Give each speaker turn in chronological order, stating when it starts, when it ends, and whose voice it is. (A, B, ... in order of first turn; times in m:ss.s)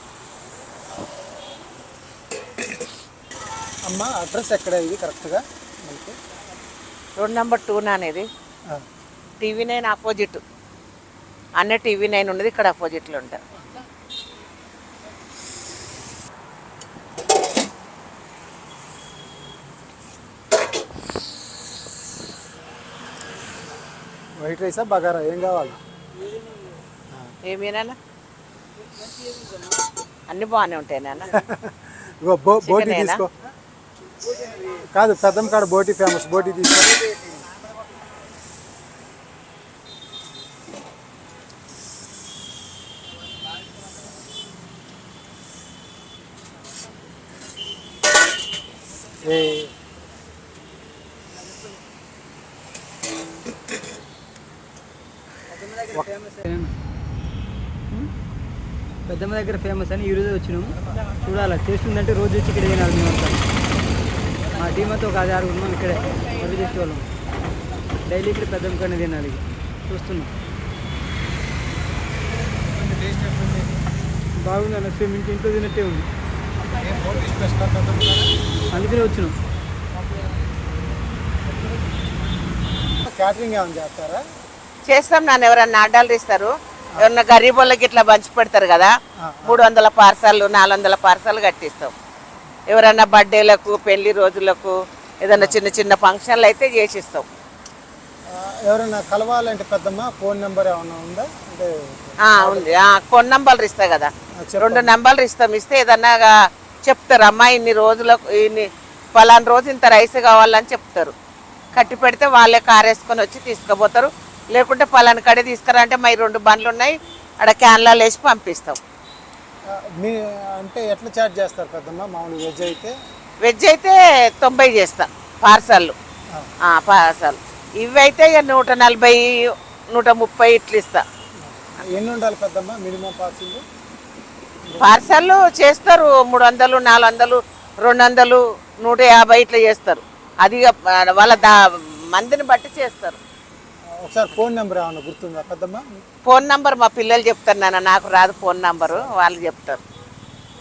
0:03.8-0:06.2 A
0:07.2-0:08.3 B
0:09.4-0:10.4 B
0:11.6-0:13.4 B
0:24.4-0:25.8 A
0:27.5-0:28.0 B
0:29.0-0:29.7 C
0:30.3-0:31.4 B
0:31.3-0:33.3 A
0:32.6-0:33.2 B
0:34.7-0:37.2 A
0:49.2-0:49.7 A
0:55.5-0:56.7 C
0:59.1-1:03.4 C
1:04.5-1:07.0 C
1:08.0-1:10.3 C
1:12.6-1:13.8 A
1:14.4-1:16.1 C
1:16.7-1:18.3 A
1:18.7-1:19.4 C
1:23.0-1:24.2 A
1:24.9-1:28.9 B
1:29.2-1:29.6 A
1:29.4-1:31.9 B
1:32.7-1:37.2 B
1:35.3-1:35.6 A
1:38.3-1:42.8 A
1:42.2-1:51.1 B
1:44.4-1:44.9 A
1:51.7-1:58.8 B
1:59.7-2:02.9 A
2:03.4-2:05.9 B
2:06.7-2:11.0 B
2:11.4-2:13.6 A
2:14.6-2:15.0 A
2:14.8-2:23.2 B
2:24.0-2:25.8 A
2:26.2-2:29.8 B